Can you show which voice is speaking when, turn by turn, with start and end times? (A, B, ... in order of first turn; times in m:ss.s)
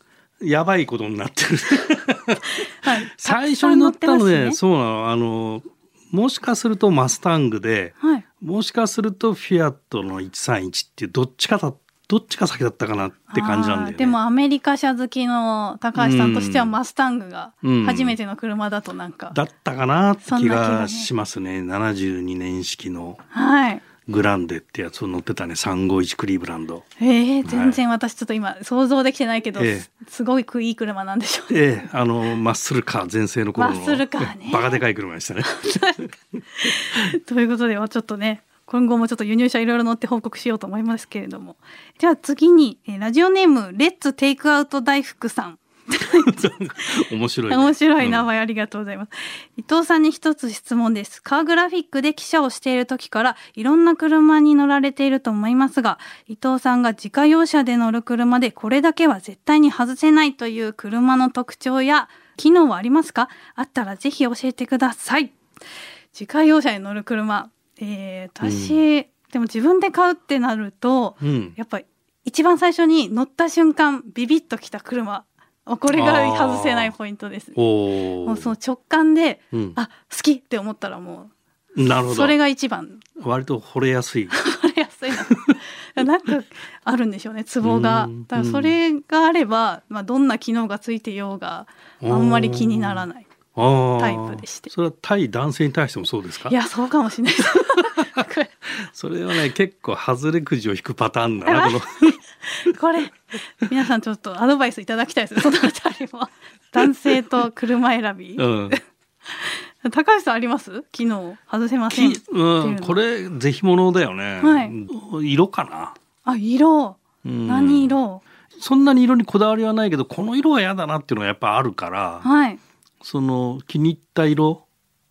0:00.4-0:14.1 A
0:02.8-0:04.6 B
0:13.3-0:19.4 B
0:16.0-0:16.7 A
0:17.6-0:18.2 A
0:19.3-0:23.2 A
0:20.2-0:21.1 B
0:23.3-0:23.8 B
0:24.0-0:26.8 A
0:27.0-0:31.5 B
0:27.4-0:27.8 A
0:29.6-0:29.9 A
0:31.5-0:36.4 A
0:33.6-0:34.8 B
0:35.5-0:36.0 B
0:36.6-0:46.8 B
0:46.2-0:48.2 A
0:47.5-1:05.4 B
1:06.1-1:17.6 B
1:08.4-1:08.8 A
1:11.2-1:11.5 A
1:15.9-1:16.9 A
1:17.5-1:18.5 A
1:18.2-1:21.3 B
1:19.5-1:19.8 A
1:21.8-1:22.4 A
1:22.0-1:23.0 B
1:23.2-1:24.4 A
1:24.3-1:33.3 B
1:27.6-1:28.7 A
1:32.0-1:33.0 A
1:33.5-1:36.5 A
1:34.0-1:34.7 B
1:36.5-1:38.5 B
1:38.8-1:42.2 A
1:41.4-1:53.0 B
1:48.4-1:48.8 A
1:51.9-1:56.0 A
1:54.4-1:54.7 B
1:56.2-1:58.2 B
1:57.2-1:57.9 A
1:58.6-2:02.3 A
2:02.2-2:02.6 B
2:03.0-2:04.6 A